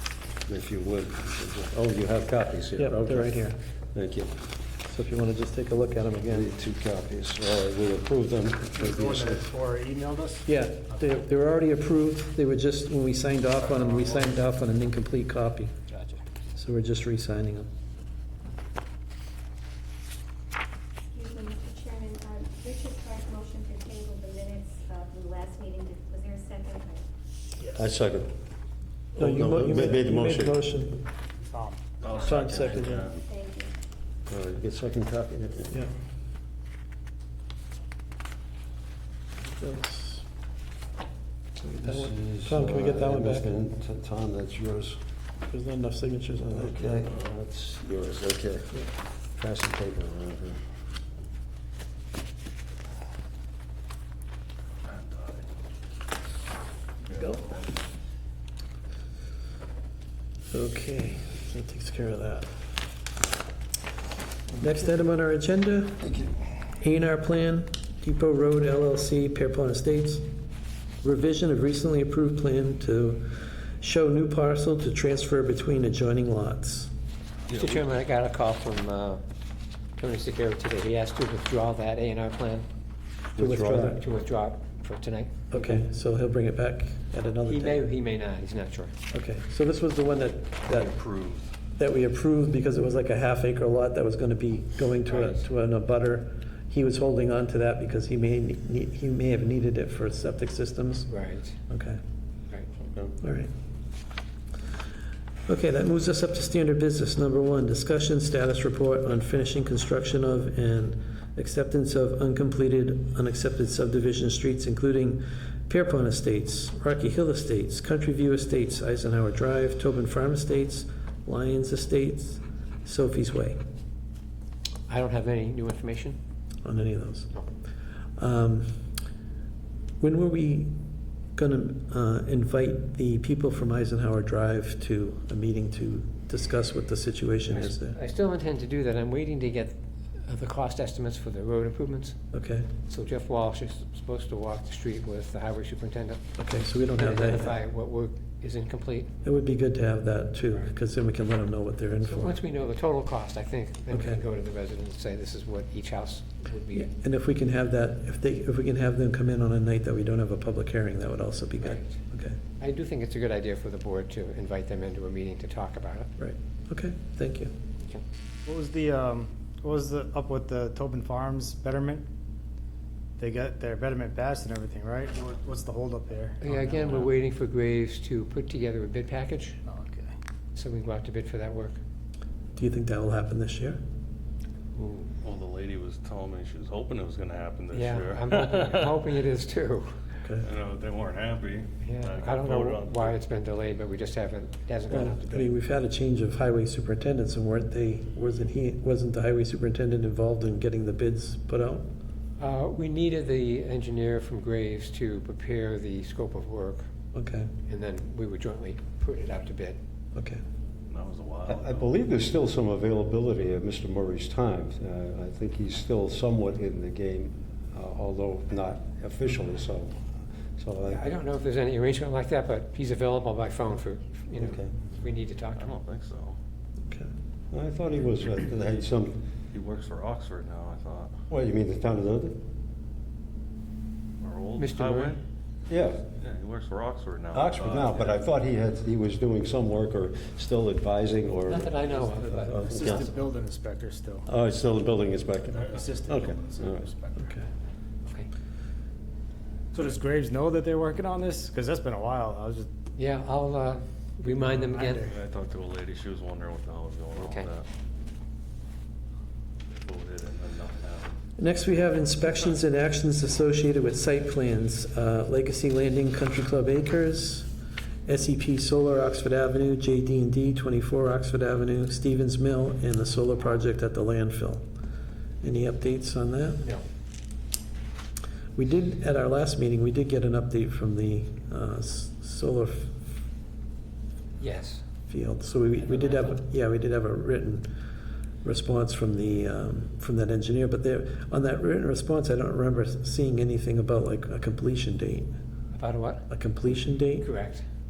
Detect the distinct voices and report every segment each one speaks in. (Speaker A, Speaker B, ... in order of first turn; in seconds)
Speaker A: 0.5-3.4, 3.9-4.3, 6.3-9.4, 27.7-28.3, 29.1-30.6, 34.3-35.7, 41.7-45.0, 46.4-48.8, 49.4-50.6, 66.0-66.3, 83.3-84.0, 102.8-103.1, 211.5-220.0, 220.6-221.0, 224.3-224.7, 227.5-229.2, 231.3-232.4, 235.7-236.0, 237.3-241.7, 242.3-243.1, 244.3-246.9
Speaker B: 2.8-3.6, 4.9-6.5, 10.4-15.7, 16.5-17.7, 29.2-31.0, 32.2-33.1, 39.4-40.2, 41.6-43.5, 45.5-46.9, 57.1-57.4, 60.5-62.5, 64.6-66.0, 66.8-70.2, 71.0-76.9, 83.4-84.0, 85.5-87.9, 89.1-90.9, 91.8-101.1, 101.7-102.0, 103.2-103.5, 105.5-123.6, 126.6-127.3, 128.2-128.9, 130.0-130.7, 131.3-137.9, 142.3-142.7, 146.4-147.6, 149.2-152.4, 153.9-154.2, 156.7-162.4, 166.2-167.5, 182.6-183.8, 194.9-201.8, 207.1-207.5, 210.1-210.4, 247.2-247.5, 261.4-267.5, 268.1-274.6, 275.4-276.6, 278.6-283.1, 285.1-287.7, 288.4-295.3, 296.3-297.3
Speaker C: 8.7-10.5, 13.6-14.3, 31.4-31.8, 168.4-172.0, 173.2-177.1, 179.7-180.1, 241.8-244.3, 245.5-247.2, 249.7-252.7, 254.7-255.1
Speaker D: 21.1-27.0, 32.1-33.7
Speaker E: 32.0-33.2, 54.9-55.5, 57.0-57.7, 77.5-77.9, 90.7-91.5, 185.2-189.0, 190.4-193.2, 210.9-211.9, 225.5-226.4, 229.5-231.1, 234.2-235.2, 236.1-238.3, 254.9-257.7, 259.7-261.2
Speaker F: 77.5-79.2, 80.0-82.7, 83.6-85.8, 87.5-88.9, 95.1-95.4, 101.1-101.5, 124.9-126.2, 137.5-142.2, 142.8-146.2, 146.9-149.1, 152.0-156.9, 161.6-162.0, 162.6-166.1, 176.4-179.6, 180.5-181.8, 184.8-185.1, 187.7-189.9, 191.8-195.4, 202.4-206.8, 207.7-209.8, 220.8-225.7, 234.6-235.2, 241.4-243.0, 252.9-255.0, 257.1-257.5, 284.4-284.8, 285.8-286.4, 295.7-296.2, 297.2-297.6